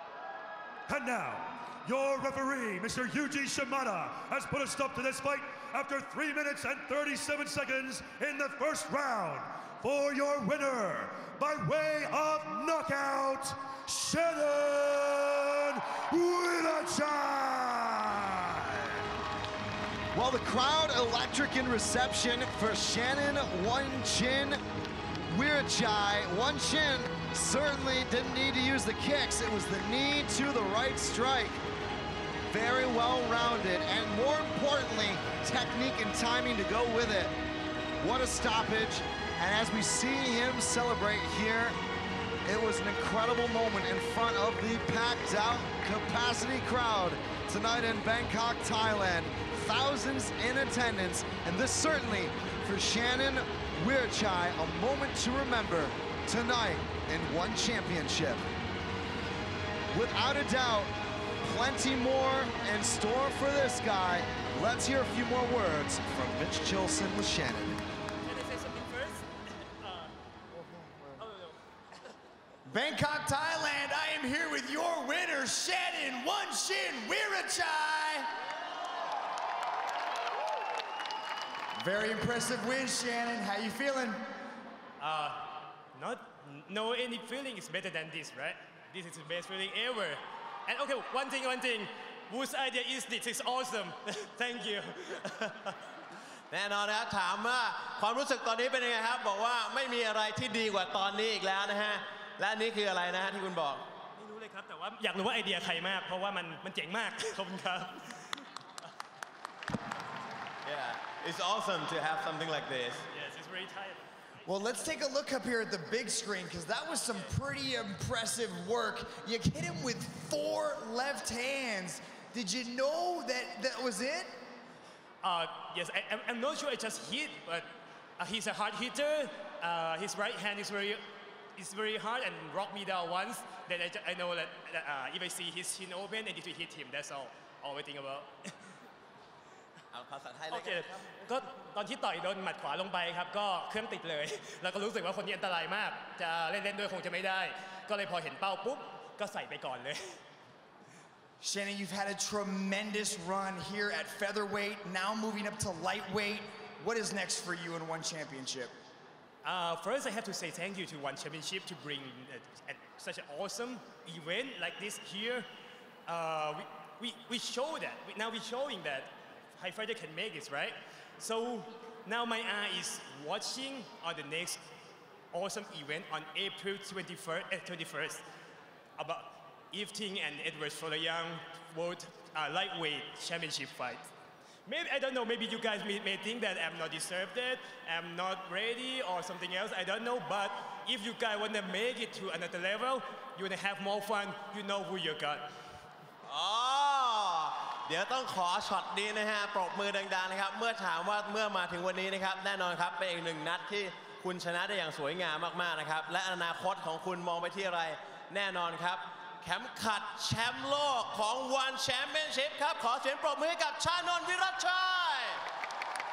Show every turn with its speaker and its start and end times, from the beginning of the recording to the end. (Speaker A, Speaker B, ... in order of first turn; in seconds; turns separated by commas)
Speaker A: 0.9-18.9, Speaker B: 20.1-24.6, Speaker B: 25.2-31.6, Speaker B: 32.5-37.4, Speaker B: 38.0-41.8, Speaker B: 42.5-58.4, Speaker B: 59.9-67.8, Speaker C: 68.2-70.1, Speaker C: 71.2-71.5, Speaker D: 72.7-78.3, Speaker D: 81.8-84.2, Speaker C: 85.0-95.7, Speaker E: 96.5-103.9, Speaker C: 104.2-108.4, Speaker E: 110.6-113.0, Speaker C: 113.1-114.1, Speaker D: 114.4-124.4, Speaker C: 125.2-131.0, Speaker C: 131.6-138.5, Speaker E: 139.9-140.9, Speaker C: 140.5-150.2, Speaker D: 151.4-158.7, Speaker C: 159.4-165.5, Speaker C: 166.1-174.6, Speaker C: 175.3-178.2, Speaker C: 179.0-184.1, Speaker C: 184.7-195.5, Speaker E: 196.2-215.4